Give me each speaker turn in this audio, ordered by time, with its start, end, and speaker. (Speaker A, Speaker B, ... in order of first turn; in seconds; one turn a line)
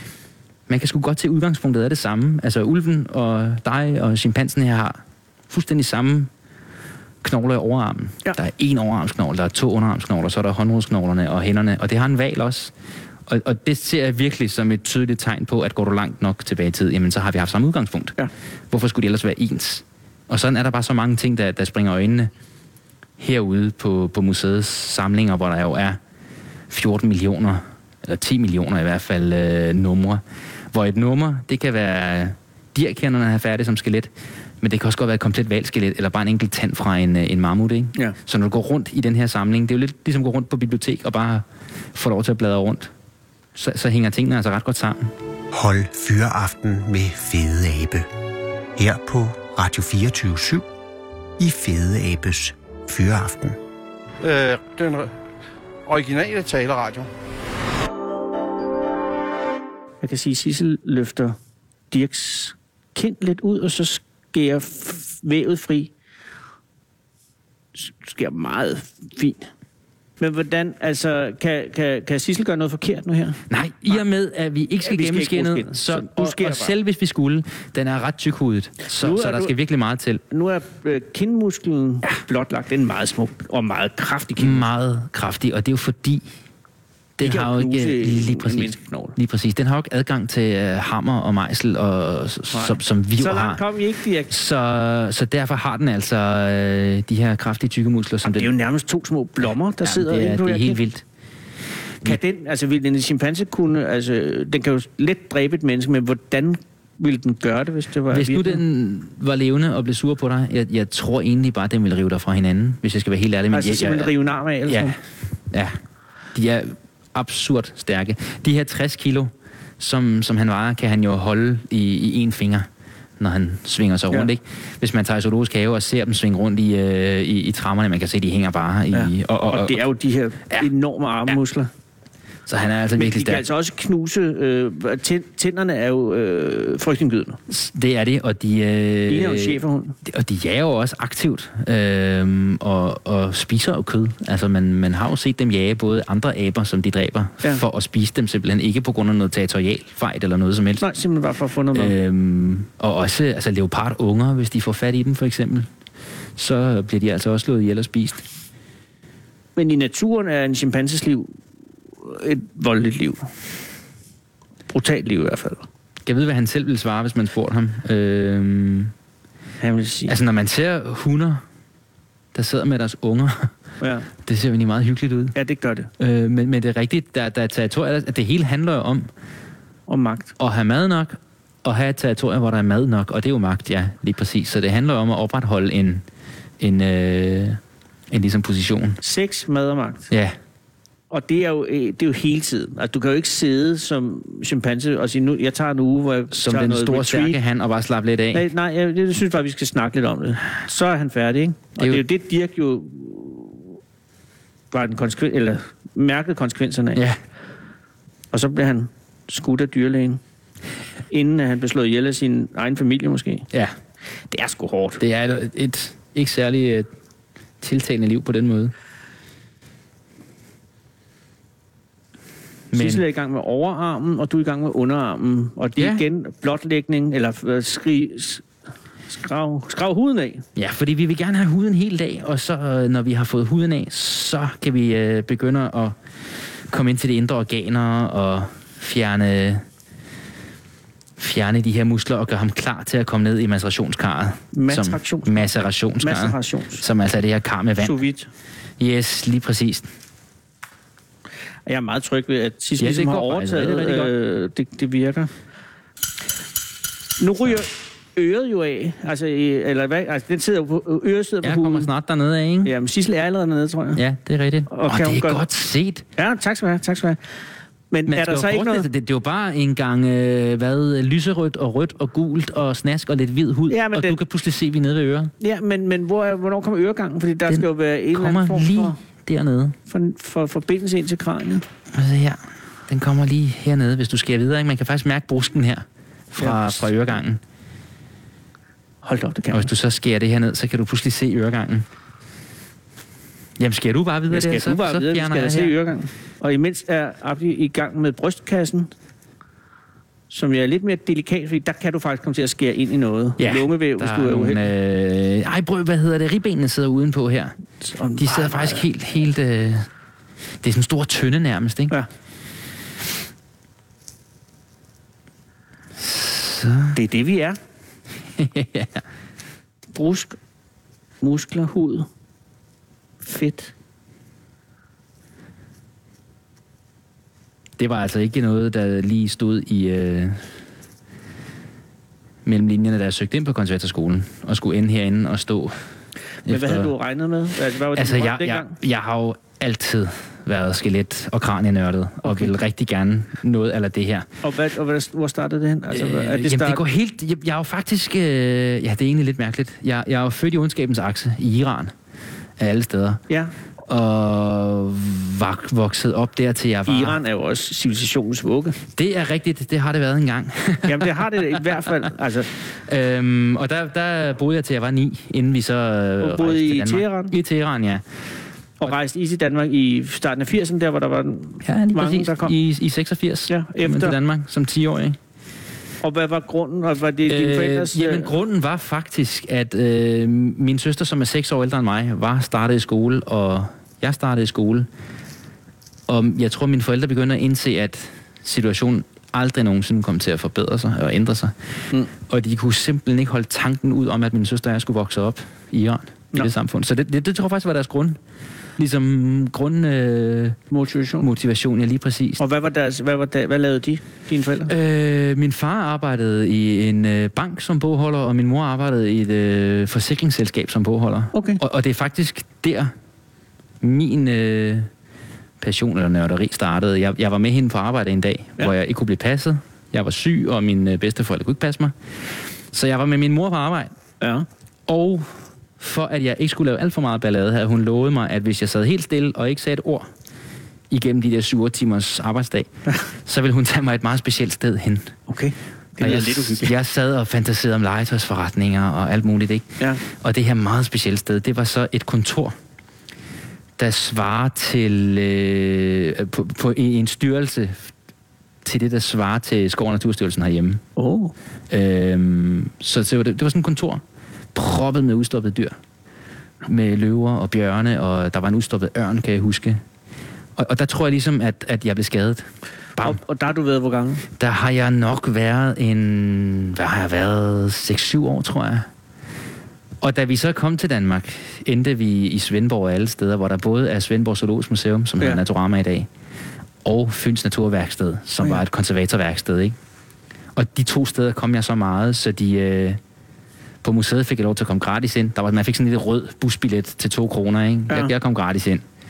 Speaker A: 0.7-6.3
Speaker A: 7.2-12.7
Speaker A: 13.3-18.2
Speaker A: 18.7-22.3
Speaker A: 23.2-26.0
Speaker A: 26.7-30.2
Speaker A: 30.7-34.1
Speaker A: 34.6-42.9
Speaker A: 43.5-45.1
Speaker B: 45.5-48.1
Speaker B: 48.8-50.7
Speaker B: 51.4-53.6
Speaker C: 54.2-55.1
Speaker C: 55.9-57.1
Speaker D: 60.0-61.4
Speaker D: 61.9-65.9
Speaker D: 67.7-69.5
Speaker D: 70.2-74.0
Speaker A: 73.5-80.2
Speaker D: 74.8-76.7
Speaker D: 79.0-79.5
Speaker D: 80.3-84.6
Speaker A: 84.4-86.2
Speaker A: 87.2-93.6
Speaker D: 87.2-89.2
Speaker D: 92.5-94.3
Speaker A: 94.3-98.5
Speaker D: 98.2-100.8
Speaker A: 99.8-101.0
Speaker D: 102.0-108.6
Speaker A: 108.1-114.1
Speaker D: 113.5-115.0
Speaker A: 114.7-114.9
Speaker A: 115.5-115.8
Speaker A: 116.3-122.7
Speaker A: 123.2-129.8
Speaker D: 128.9-131.7
Speaker A: 132.5-133.4
Speaker D: 133.0-137.4
Speaker A: 137.5-150.9
Speaker D: 139.1-140.0
Speaker D: 150.8-151.9
Speaker A: 151.7-155.7
Speaker A: 156.4-158.2
Speaker D: 159.6-161.3
Speaker D: 162.0-163.3
Speaker D: 164.7-165.7
Speaker A: 166.0-168.9
Speaker D: 169.6-170.1
Speaker A: 170.1-171.4
Speaker A: 172.3-173.5
Speaker D: 173.8-174.1
Speaker A: 174.2-175.3
Speaker D: 175.3-175.9
Speaker A: 176.0-179.1
Speaker D: 179.9-180.3
Speaker A: 180.4-186.0
Speaker A: 186.6-187.6
Speaker A: 188.1-189.0
Speaker D: 189.0-190.1
Speaker D: 191.1-197.4
Speaker A: 196.3-198.5
Speaker D: 198.3-203.7
Speaker D: 204.7-207.0
Speaker D: 208.3-210.2
Speaker D: 211.1-213.4
Speaker D: 214.3-215.0
Speaker A: 215.0-216.9
Speaker A: 217.6-218.7
Speaker A: 222.7-223.0
Speaker D: 222.7-228.4
Speaker A: 225.8-226.0
Speaker D: 229.1-230.4
Speaker A: 230.6-235.9
Speaker A: 236.7-239.6
Speaker A: 241.2-248.0
Speaker D: 244.5-245.3
Speaker D: 246.0-246.8
Speaker D: 247.8-248.3
Speaker A: 248.8-249.9
Speaker D: 251.7-255.3
Speaker A: 252.8-254.1
Speaker D: 257.2-261.9
Speaker A: 261.4-262.7
Speaker D: 262.6-264.0
Speaker A: 263.9-266.0
Speaker D: 264.7-265.4
Speaker D: 266.2-267.2
Speaker D: 267.9-268.9
Speaker A: 268.1-275.3
Speaker D: 273.7-274.1
Speaker D: 275.4-279.0
Speaker A: 277.5-279.8
Speaker D: 279.9-281.6
Speaker A: 281.9-287.4
Speaker D: 286.4-286.8
Speaker D: 289.0-289.7
Speaker A: 289.5-291.9
Speaker A: 293.6-295.7
Speaker D: 294.3-298.9
Speaker D: 300.3-304.6
Speaker A: 303.4-307.5
Speaker D: 307.8-308.8
Speaker A: 308.2-309.9
Speaker A: 310.6-311.9
Speaker A: 316.0-317.0
Speaker D: 316.9-317.6
Speaker A: 318.4-319.0
Speaker D: 319.9-320.4
Speaker D: 321.2-322.1
Speaker D: 323.2-323.7
Speaker A: 327.8-330.4
Speaker A: 332.4-335.8
Speaker A: 336.4-336.9
Speaker D: 336.4-338.7
Speaker A: 337.9-344.3
Speaker D: 342.2-342.5
Speaker D: 344.4-346.8
Speaker A: 345.9-351.9
Speaker A: 352.6-353.2
Speaker A: 353.9-357.2
Speaker D: 356.9-358.8
Speaker A: 358.9-361.9
Speaker D: 360.9-362.5
Speaker A: 362.9-368.0
Speaker D: 366.2-367.3
Speaker D: 368.8-372.5
Speaker A: 371.6-375.2
Speaker D: 373.5-374.1
Speaker D: 376.0-378.3
Speaker A: 377.3-384.9
Speaker A: 386.1-391.5
Speaker A: 392.2-398.2
Speaker A: 398.8-400.6
Speaker D: 400.7-401.2
Speaker A: 401.2-402.4
Speaker D: 402.4-404.7
Speaker A: 404.7-412.9
Speaker D: 411.3-411.6
Speaker A: 413.8-414.9
Speaker A: 415.6-421.9
Speaker A: 422.7-423.9
Speaker D: 424.2-424.4
Speaker A: 424.9-430.1
Speaker A: 430.9-432.7
Speaker A: 433.2-435.2
Speaker D: 435.3-436.7
Speaker A: 436.0-442.6
Speaker A: 443.8-447.9
Speaker A: 448.6-450.8
Speaker D: 451.0-451.3
Speaker A: 451.7-454.0
Speaker A: 454.5-455.8
Speaker A: 456.6-459.8
Speaker A: 460.6-462.4
Speaker D: 463.0-464.2
Speaker A: 464.4-468.9
Speaker A: 470.0-476.1
Speaker A: 476.8-479.8
Speaker A: 480.5-483.0
Speaker A: 483.8-488.8